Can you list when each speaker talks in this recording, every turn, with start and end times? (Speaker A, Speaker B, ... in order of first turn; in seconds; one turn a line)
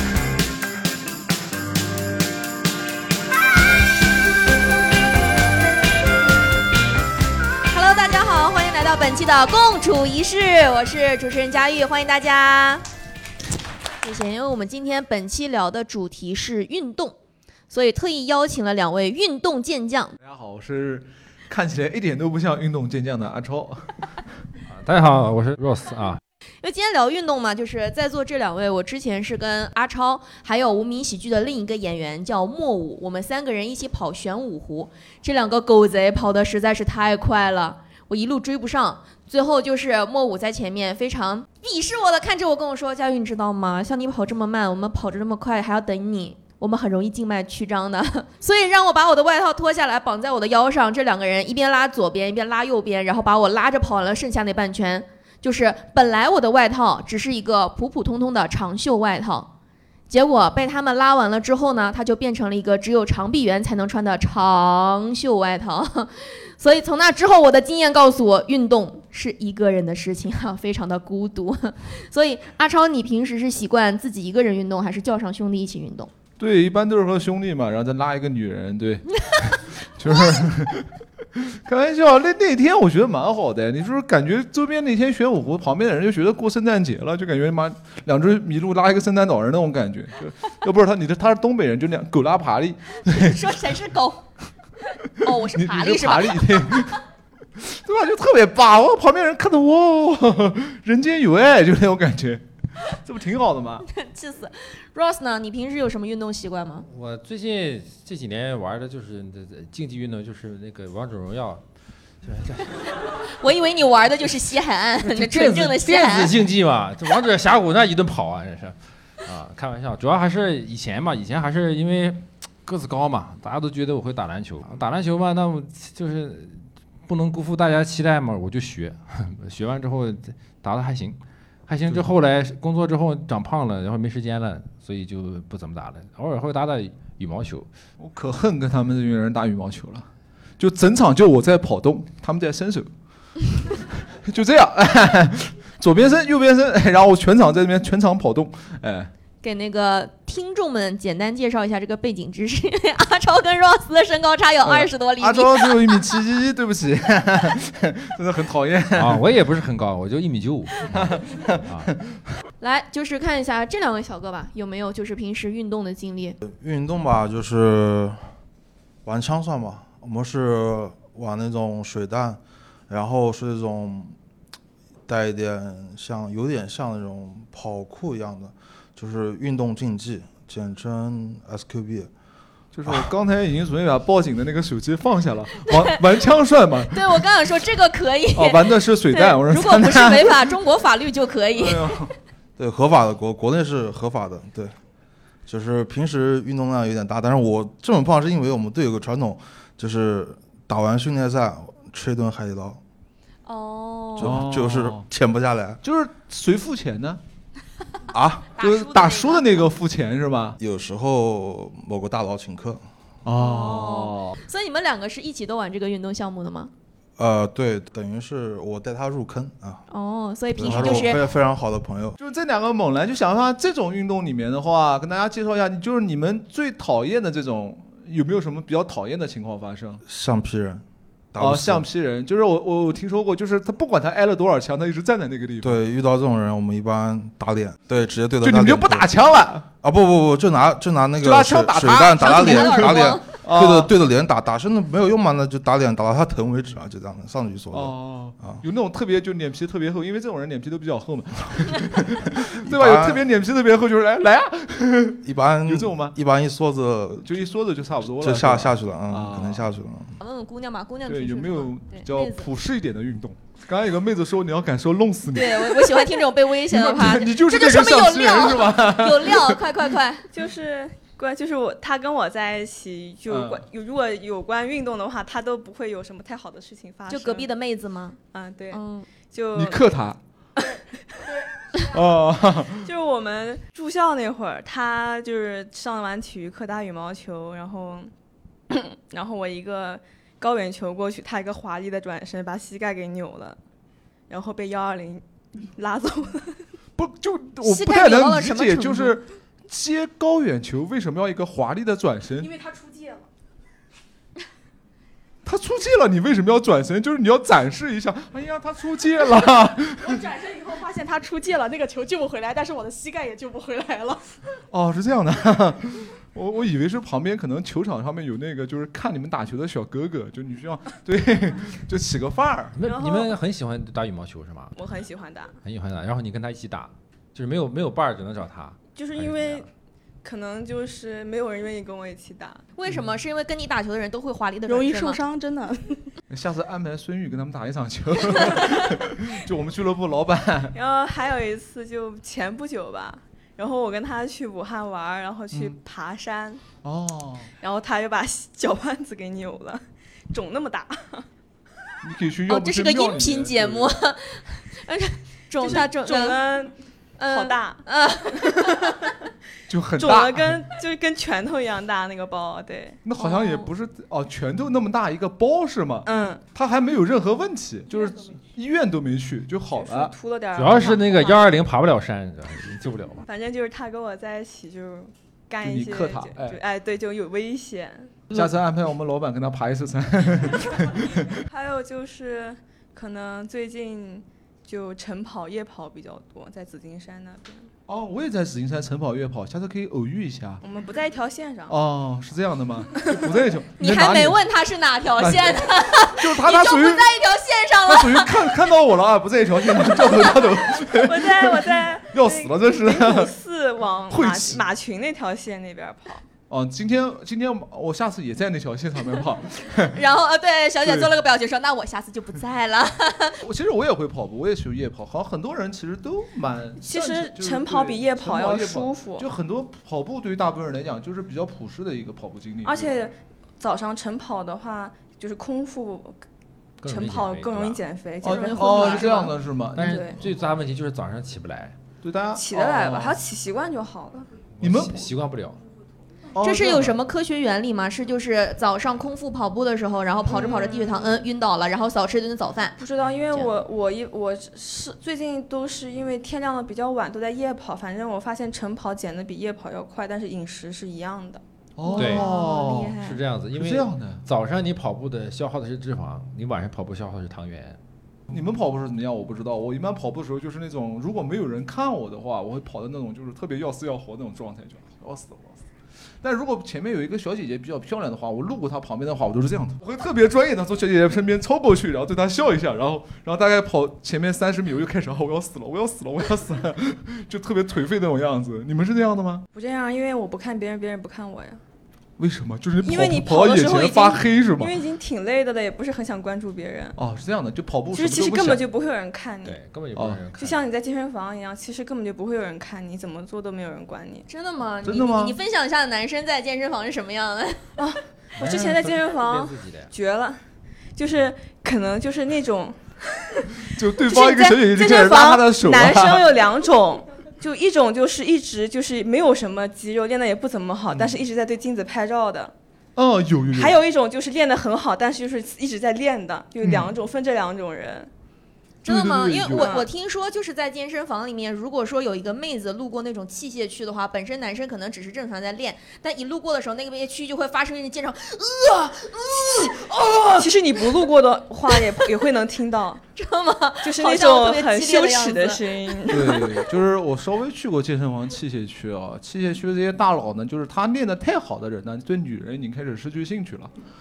Speaker A: 7.7-12.8
Speaker A: 14.0-17.1
Speaker A: 17.7-20.1
Speaker B: 20.2-23.9
Speaker C: 24.7-26.2
Speaker A: 26.6-59.5
Speaker A: 60.1-76.1
Speaker B: 76.4-93.5
Speaker A: 93.0-94.2
Speaker A: 95.2-96.7
Speaker B: 95.5-97.0
Speaker B: 97.6-102.4
Speaker B: 103.0-103.8
Speaker A: 103.9-106.9
Speaker C: 106.9-111.6
Speaker C: 112.2-112.7
Speaker A: 113.4-116.3
Speaker C: 115.0-137.7
Speaker B: 138.0-140.1
Speaker B: 140.6-142.9
Speaker B: 144.2-149.1
Speaker A: 149.4-156.0
Speaker B: 154.6-159.2
Speaker C: 159.0-161.1
Speaker B: 160.9-162.2
Speaker C: 161.7-161.9
Speaker A: 162.6-166.4
Speaker D: 166.4-168.2
Speaker D: 169.1-174.2
Speaker D: 175.1-182.1
Speaker B: 182.7-186.9
Speaker A: 185.7-185.9
Speaker A: 186.9-191.9
Speaker B: 188.3-190.5
Speaker B: 191.6-192.1
Speaker D: 192.6-194.7
Speaker D: 195.5-202.8
Speaker A: 203.5-204.3
Speaker D: 204.2-205.8
Speaker B: 204.2-205.0
Speaker B: 205.8-207.2
Speaker D: 208.1-208.5
Speaker A: 208.6-209.6
Speaker B: 208.6-210.6
Speaker D: 210.6-212.8
Speaker B: 213.2-214.4
Speaker A: 213.4-216.7
Speaker D: 217.2-219.8
Speaker A: 219.9-221.2
Speaker D: 220.6-222.2
Speaker B: 220.7-221.2
Speaker B: 222.2-230.0
Speaker D: 230.1-231.9
Speaker B: 231.4-235.8
Speaker D: 235.6-239.1
Speaker B: 238.4-239.6
Speaker D: 239.8-248.6
Speaker B: 241.2-243.9
Speaker A: 242.2-243.2
Speaker B: 247.7-256.2
Speaker D: 252.7-253.2
Speaker D: 255.2-257.5
Speaker B: 257.3-259.7
Speaker D: 258.2-260.1
Speaker A: 260.2-262.5
Speaker B: 261.1-265.9
Speaker A: 265.3-270.2
Speaker B: 266.7-269.6
Speaker E: 270.3-277.5
Speaker B: 273.3-273.6
Speaker A: 277.1-278.2
Speaker E: 278.3-279.9
Speaker A: 278.7-279.1
Speaker B: 279.5-280.2
Speaker B: 281.9-282.9
Speaker E: 282.8-288.1
Speaker E: 288.7-293.6
Speaker E: 294.3-296.6
Speaker B: 297.0-302.5
Speaker A: 297.6-299.2
Speaker F: 302.4-303.2
Speaker B: 305.4-310.2
Speaker F: 310.0-314.2
Speaker B: 314.7-322.8
Speaker C: 322.8-324.7
Speaker E: 322.8-323.4
Speaker E: 324.8-325.5
Speaker C: 325.6-329.7
Speaker E: 328.9-329.7
Speaker E: 330.2-332.6
Speaker A: 332.8-335.2
Speaker F: 334.7-336.0
Speaker B: 336.3-340.8
Speaker E: 340.7-346.6
Speaker B: 345.5-345.8
Speaker B: 346.8-347.5
Speaker E: 347.6-351.2
Speaker B: 352.0-353.9
Speaker A: 352.5-356.4
Speaker E: 355.6-357.8
Speaker A: 357.2-359.0
Speaker E: 358.5-359.1
Speaker B: 359.7-360.7
Speaker E: 360.0-363.0
Speaker B: 363.0-370.1
Speaker A: 363.3-363.6
Speaker E: 366.1-366.4
Speaker E: 369.7-371.4
Speaker C: 370.5-373.2
Speaker E: 373.2-378.2
Speaker B: 375.6-376.6
Speaker B: 378.3-381.3
Speaker E: 381.5-387.7
Speaker B: 387.9-390.6
Speaker E: 390.6-391.8
Speaker B: 391.7-394.4
Speaker E: 393.0-393.3
Speaker A: 393.8-398.3
Speaker B: 395.2-397.1
Speaker B: 397.9-403.3
Speaker E: 400.9-406.2
Speaker B: 404.1-404.6
Speaker B: 406.5-410.0
Speaker A: 409.9-413.4
Speaker B: 410.8-411.1
Speaker B: 413.4-422.9
Speaker E: 416.8-419.3
Speaker E: 422.6-426.2
Speaker C: 426.8-427.8
Speaker E: 426.8-430.2
Speaker B: 428.2-430.1
Speaker C: 429.8-431.8
Speaker B: 432.0-433.2
Speaker E: 432.3-434.3
Speaker C: 434.6-435.6
Speaker B: 434.6-435.1
Speaker B: 436.4-437.0
Speaker A: 436.4-442.8
Speaker E: 440.3-441.2
Speaker E: 442.8-453.1
Speaker B: 451.8-453.0
Speaker C: 451.9-452.3
Speaker C: 453.0-457.8
Speaker B: 453.5-454.2
Speaker B: 458.3-465.6
Speaker B: 466.2-479.5
Speaker E: 479.5-481.6
Speaker B: 482.2-484.8
Speaker E: 482.8-487.0
Speaker B: 487.0-488.7
Speaker E: 487.9-489.6
Speaker C: 489.4-490.6
Speaker B: 489.9-490.2
Speaker E: 490.4-494.3
Speaker A: 494.3-497.6
Speaker B: 494.8-495.4
Speaker E: 497.8-500.4
Speaker C: 498.4-499.9
Speaker E: 501.0-502.8
Speaker B: 503.8-506.4
Speaker E: 504.0-512.5
Speaker B: 510.9-511.2
Speaker B: 513.0-513.8
Speaker E: 513.5-518.1
Speaker B: 516.6-516.9
Speaker A: 518.8-530.3
Speaker B: 518.9-519.8
Speaker E: 519.5-519.9
Speaker E: 530.4-533.0
Speaker A: 533.2-535.9
Speaker E: 533.8-536.6
Speaker B: 536.1-543.7